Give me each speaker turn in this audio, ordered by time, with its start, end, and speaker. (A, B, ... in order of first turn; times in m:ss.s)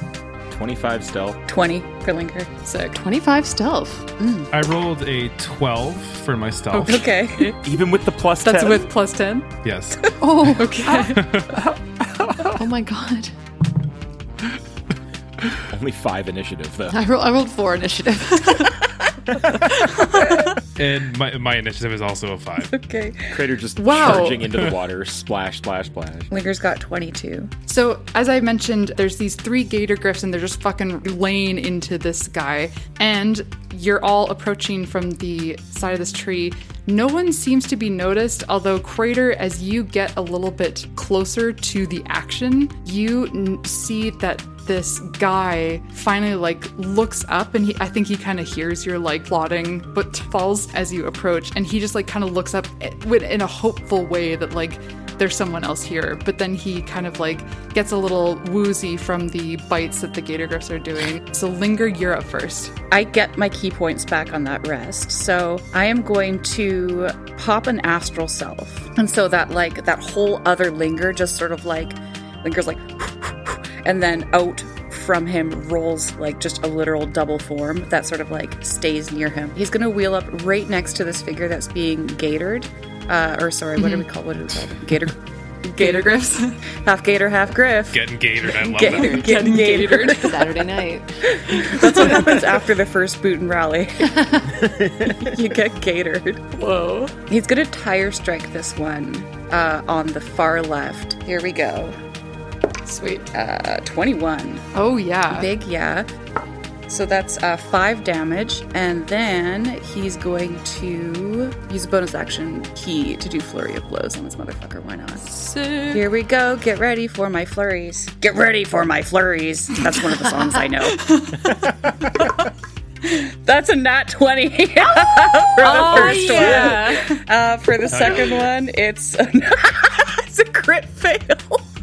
0:00.5-0:01.4 A
0:01.5-0:02.6 B
0:02.6-0:03.0 C
0:02.9-0:04.1 D
0:04.5-0:07.0 E
0:06.7-0:07.5 C
0:06.9-0:07.6 B
0:07.6-0:08.9 A
0:08.4-0:09.5 C
0:09.6-0:10.1 E
0:10.2-0:11.2 D
0:10.5-0:11.7 C
0:11.1-0:11.6 E
0:12.6-0:13.3 D
0:15.7-0:17.0 A
0:16.9-0:18.7 D
0:19.8-0:20.4 C
0:20.8-0:22.7 E
0:22.7-0:23.4 B
0:23.3-0:26.3 A
0:23.8-0:24.4 C
0:26.3-0:27.5 B
0:27.6-1:02.8 C
1:02.9-1:30.6 B
1:23.8-1:24.0 C
1:25.8-1:26.6 C
1:27.9-1:29.3 E
1:28.6-1:31.2 D
1:28.9-1:30.6 C
1:31.3-1:34.1 B
1:31.8-1:32.3 C
1:34.1-1:34.5 D
1:35.2-1:36.5 B
1:36.6-1:37.1 C
1:37.3-1:42.0 B
1:42.8-1:43.3 C
1:43.3-1:44.7 B
1:44.7-1:45.5 C
1:45.3-1:46.1 B
1:46.9-1:55.4 B
1:55.2-1:56.0 C
1:55.9-2:01.1 B
2:00.9-2:01.5 C
2:03.2-2:11.6 B
2:05.6-2:07.2 C
2:07.9-2:08.5 E